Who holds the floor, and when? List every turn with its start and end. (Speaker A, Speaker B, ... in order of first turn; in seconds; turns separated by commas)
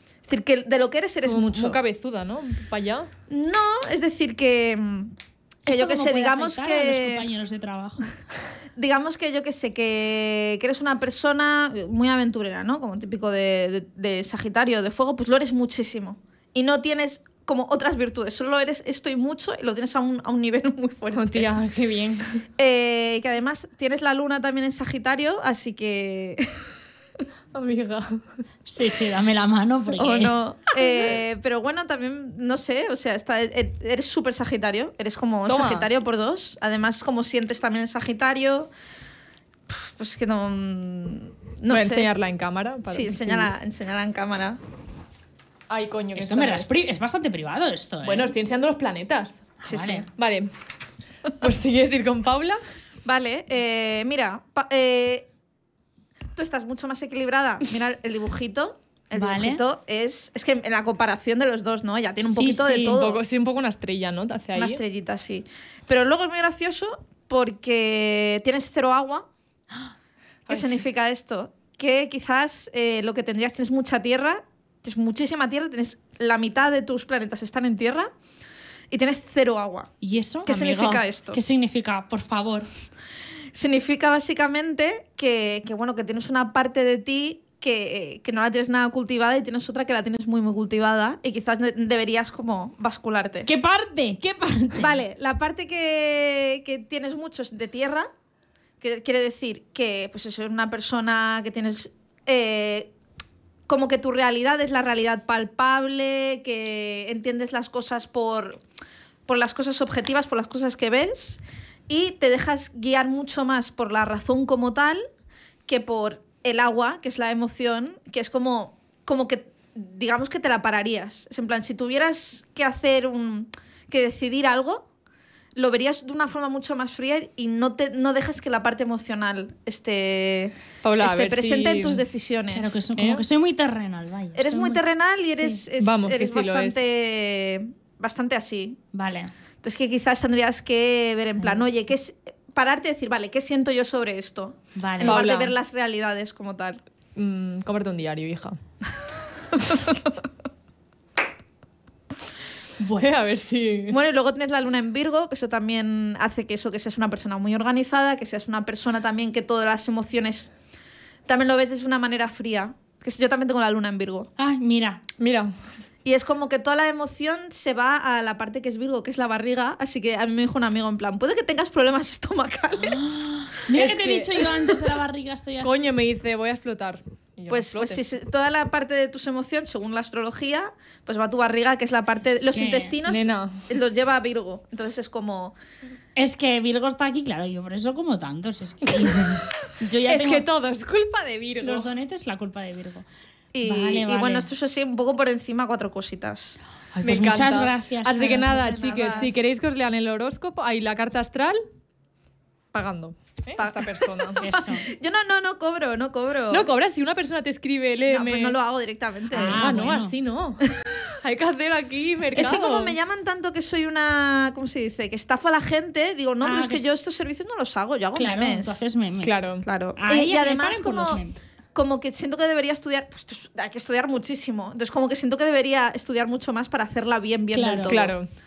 Speaker A: 0.2-1.8, Speaker B: 1.2-3.1, Speaker A: 3.3-5.1, Speaker C: 5.7-8.1, Speaker A: 5.7-7.2, Speaker A: 8.8-21.5, Speaker B: 21.1-22.4, Speaker A: 22.6-26.7, Speaker B: 27.5-28.2, Speaker C: 28.7-30.3, Speaker A: 29.9-38.7, Speaker B: 35.5-35.9, Speaker A: 39.7-42.1, Speaker B: 41.7-43.5, Speaker A: 42.9-44.6, Speaker B: 45.7-46.7, Speaker C: 46.1-48.3, Speaker B: 48.0-49.6, Speaker C: 49.6-50.1, Speaker A: 49.6-50.1, Speaker B: 50.1-50.5, Speaker B: 51.4-52.6, Speaker A: 53.0-55.3, Speaker A: 56.3-63.2, Speaker C: 59.1-59.6, Speaker C: 62.2-63.0, Speaker B: 62.9-64.8, Speaker A: 64.5-69.3, Speaker B: 70.5-70.8, Speaker A: 70.5-78.1, Speaker A: 78.9-79.9, Speaker C: 80.0-82.7, Speaker A: 80.5-81.4, Speaker B: 80.5-80.8, Speaker A: 83.5-93.5, Speaker C: 93.5-95.0, Speaker A: 94.8-98.1, Speaker A: 98.8-102.9, Speaker A: 103.7-108.6, Speaker A: 109.2-115.0, Speaker A: 115.7-124.9, Speaker A: 125.5-132.8, Speaker B: 130.8-132.1, Speaker C: 132.5-134.8, Speaker B: 132.9-133.2, Speaker A: 134.3-138.8, Speaker B: 135.8-136.8, Speaker C: 138.9-139.3, Speaker A: 139.6-146.8, Speaker C: 144.7-145.2, Speaker B: 145.0-145.5, Speaker B: 147.2-148.6, Speaker C: 152.8-153.1, Speaker B: 153.0-154.0, Speaker A: 153.9-160.5, Speaker A: 161.3-164.3, Speaker C: 164.4-165.0, Speaker B: 165.2-165.5, Speaker A: 166.0-173.5, Speaker C: 172.8-175.8, Speaker B: 173.7-174.5, Speaker B: 175.6-178.0, Speaker A: 177.5-185.5, Speaker C: 182.4-182.9, Speaker B: 183.1-183.7, Speaker C: 186.2-190.4, Speaker B: 190.1-191.9, Speaker C: 191.6-193.0, Speaker A: 193.5-196.6, Speaker C: 193.6-194.5, Speaker C: 196.9-199.2, Speaker B: 197.0-201.6, Speaker A: 198.5-199.4, Speaker B: 202.7-204.4, Speaker A: 203.6-206.7, Speaker C: 204.4-204.9, Speaker B: 206.5-208.6, Speaker A: 208.1-209.8, Speaker C: 209.3-210.1, Speaker B: 209.4-210.6, Speaker B: 211.2-212.9, Speaker C: 212.2-212.6, Speaker A: 212.3-218.8, Speaker C: 216.4-216.8, Speaker C: 218.1-219.4, Speaker B: 219.2-219.6, Speaker A: 219.6-221.2, Speaker C: 219.9-221.4, Speaker A: 221.7-228.2, Speaker C: 227.5-228.0, Speaker B: 227.9-228.3